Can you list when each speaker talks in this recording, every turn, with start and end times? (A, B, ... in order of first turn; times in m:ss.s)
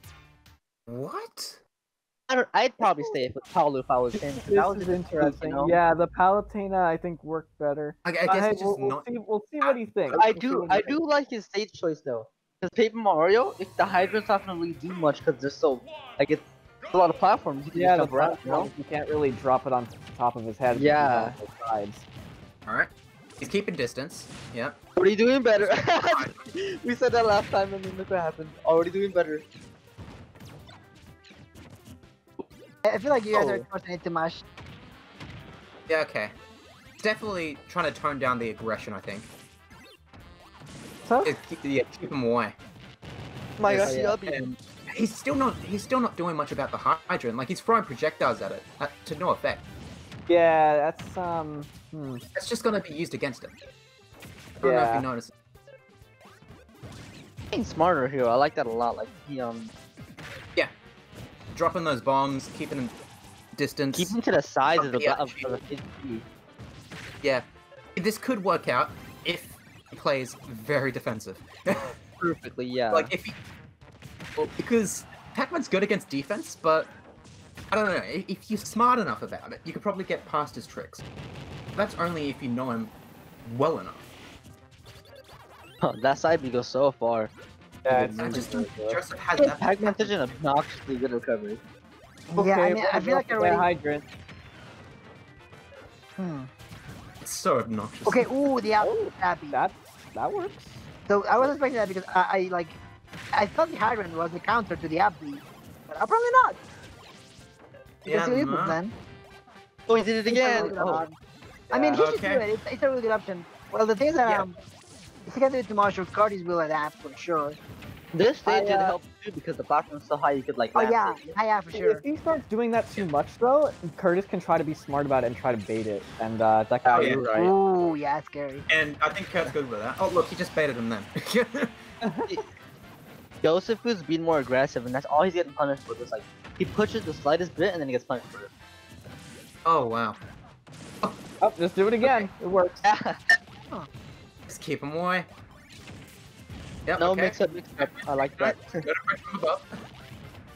0:00.9-0:01.6 A
0:02.3-0:05.8 B
0:04.1-0:10.9 C
0:08.0-0:09.1 A
0:09.6-0:10.2 A
0:10.2-0:18.7 B
0:17.7-0:22.0 C
0:20.7-0:21.4 B
0:22.7-0:24.8 A
0:25.0-0:29.4 B
0:25.6-0:26.4 A
0:32.8-0:34.4 D
0:33.3-0:33.6 B
0:35.9-0:36.3 A
0:37.0-0:39.3 A
0:41.0-0:41.4 C
0:41.2-0:42.6 A
0:43.6-0:44.5 B
0:43.7-0:49.6 A
0:50.3-0:52.2 C
0:52.3-0:53.5 A
0:54.6-0:55.1 C
0:54.6-0:55.3 A
0:57.5-0:59.7 B
1:01.5-1:03.0 A
1:03.6-1:04.2 A
1:03.9-1:06.2 B
1:04.8-1:05.6 A
1:07.2-1:11.9 A
1:12.2-1:13.1 B
1:12.9-1:13.4 A
1:14.5-1:16.9 A
1:17.7-1:21.0 A
1:21.7-1:22.9 A
1:23.4-1:24.1 A
1:25.8-1:27.3 B
1:27.8-1:29.0 C
1:27.9-1:28.5 B
1:28.2-1:30.2 A
1:29.4-1:31.6 B
1:32.3-1:33.7 D
1:32.4-1:34.1 C
1:36.2-1:36.5 D
1:37.2-1:38.4 A
1:38.1-1:39.6 D
1:38.8-1:40.8 C
1:41.1-1:42.8 D
1:43.3-1:46.6 D
1:48.0-1:48.8 A
1:48.1-1:49.0 D
1:49.9-1:51.0 B
1:50.3-1:51.2 D
1:51.7-1:54.6 D
1:51.9-1:52.4 A
1:55.3-1:57.6 D
1:58.1-2:01.3 B
1:58.5-1:59.0 C
2:00.8-2:02.0 D
2:01.7-2:07.3 C
2:06.9-2:07.5 A
2:07.0-2:07.4 B
2:07.3-2:08.7 D
2:08.7-2:11.8 A
2:12.0-2:12.3 C
2:13.4-2:18.5 B
2:19.6-2:20.2 A
2:21.4-2:22.8 C
2:22.8-2:23.3 B
2:24.5-2:25.3 A
2:26.8-2:29.7 A
2:27.0-2:28.8 B